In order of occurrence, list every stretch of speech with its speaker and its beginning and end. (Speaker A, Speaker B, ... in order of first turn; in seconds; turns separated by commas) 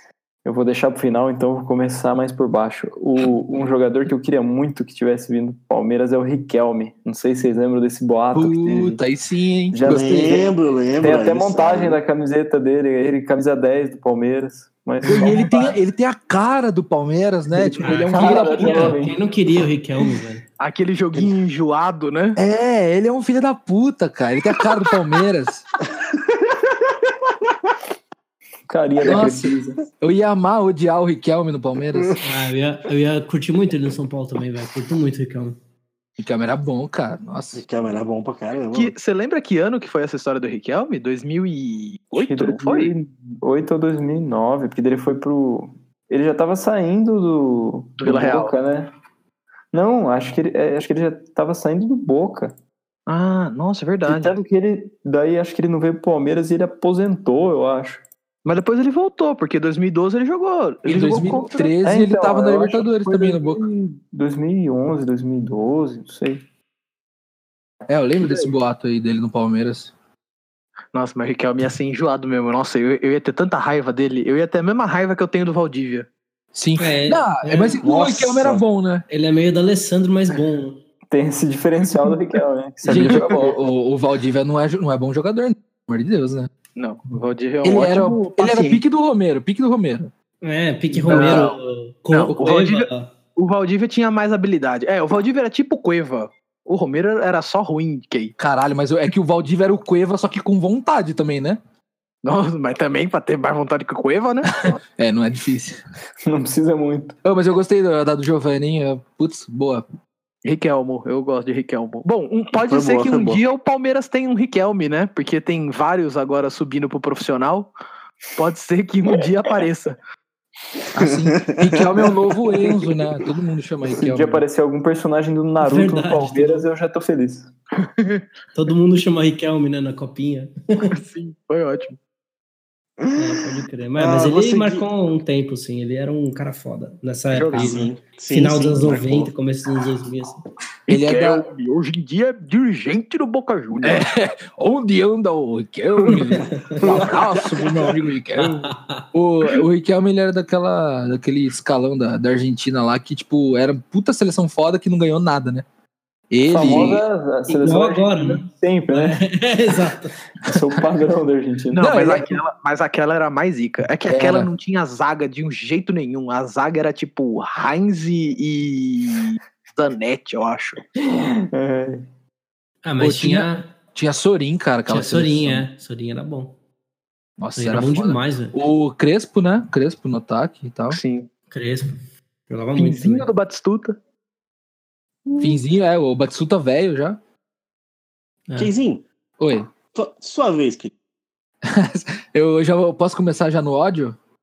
Speaker A: 0.5-9.0, Speaker B: 8.3-10.5, Speaker A: 9.7-15.6, Speaker C: 9.8-12.0, Speaker B: 15.1-19.0, Speaker D: 15.1-15.8, Speaker D: 17.6-20.4, Speaker A: 18.1-19.2, Speaker E: 20.6-22.4, Speaker B: 22.4-25.6, Speaker C: 26.5-26.7, Speaker A: 28.7-29.8, Speaker B: 29.1-32.2, Speaker D: 32.2-35.6, Speaker B: 36.2-37.6, Speaker C: 37.5-38.9, Speaker E: 38.7-42.9, Speaker A: 42.2-48.9, Speaker E: 48.0-48.5, Speaker A: 49.7-52.6, Speaker E: 53.1-54.4, Speaker A: 54.0-58.0, Speaker E: 58.5-61.7, Speaker B: 60.9-63.6, Speaker A: 61.2-66.4, Speaker B: 67.9-69.9, Speaker E: 70.9-76.1, Speaker B: 76.5-79.0, Speaker D: 76.8-77.8, Speaker C: 77.8-78.6, Speaker D: 79.1-80.8, Speaker A: 81.1-83.6, Speaker D: 82.8-83.1, Speaker B: 82.9-86.5, Speaker E: 86.8-88.8, Speaker B: 87.6-90.1, Speaker D: 90.4-93.1, Speaker E: 91.1-91.6, Speaker B: 91.1-91.4, Speaker E: 92.1-98.3, Speaker B: 98.4-101.6, Speaker E: 102.2-104.5, Speaker B: 104.6-105.8, Speaker A: 106.3-107.2, Speaker B: 107.2-109.8, Speaker E: 110.4-117.7, Speaker C: 112.7-113.4, Speaker E: 118.3-120.0, Speaker B: 120.9-124.4, Speaker C: 121.0-121.8, Speaker A: 123.8-127.5, Speaker D: 125.6-126.7, Speaker E: 127.8-128.2, Speaker D: 128.6-130.9, Speaker E: 130.9-132.0, Speaker D: 133.2-140.4, Speaker C: 134.0-134.9, Speaker E: 137.3-137.8, Speaker C: 137.5-139.3, Speaker E: 140.9-144.1, Speaker B: 140.9-141.4, Speaker B: 143.8-155.7, Speaker D: 146.3-146.8, Speaker D: 148.4-149.1, Speaker B: 156.3-157.1, Speaker A: 156.5-159.3, Speaker D: 157.5-160.2, Speaker A: 160.4-162.1, Speaker E: 161.7-170.8, Speaker B: 161.8-162.3, Speaker B: 164.1-164.5, Speaker A: 171.0-172.1, Speaker D: 172.8-173.7, Speaker B: 173.0-175.7, Speaker D: 174.9-176.6, Speaker B: 177.4-181.0, Speaker D: 177.6-178.6, Speaker E: 180.9-181.3, Speaker D: 181.5-182.0, Speaker D: 182.5-183.3, Speaker E: 182.8-184.0, Speaker B: 185.4-187.2, Speaker C: 188.6-189.0, Speaker B: 189.4-189.7, Speaker C: 189.9-190.9, Speaker B: 191.7-194.2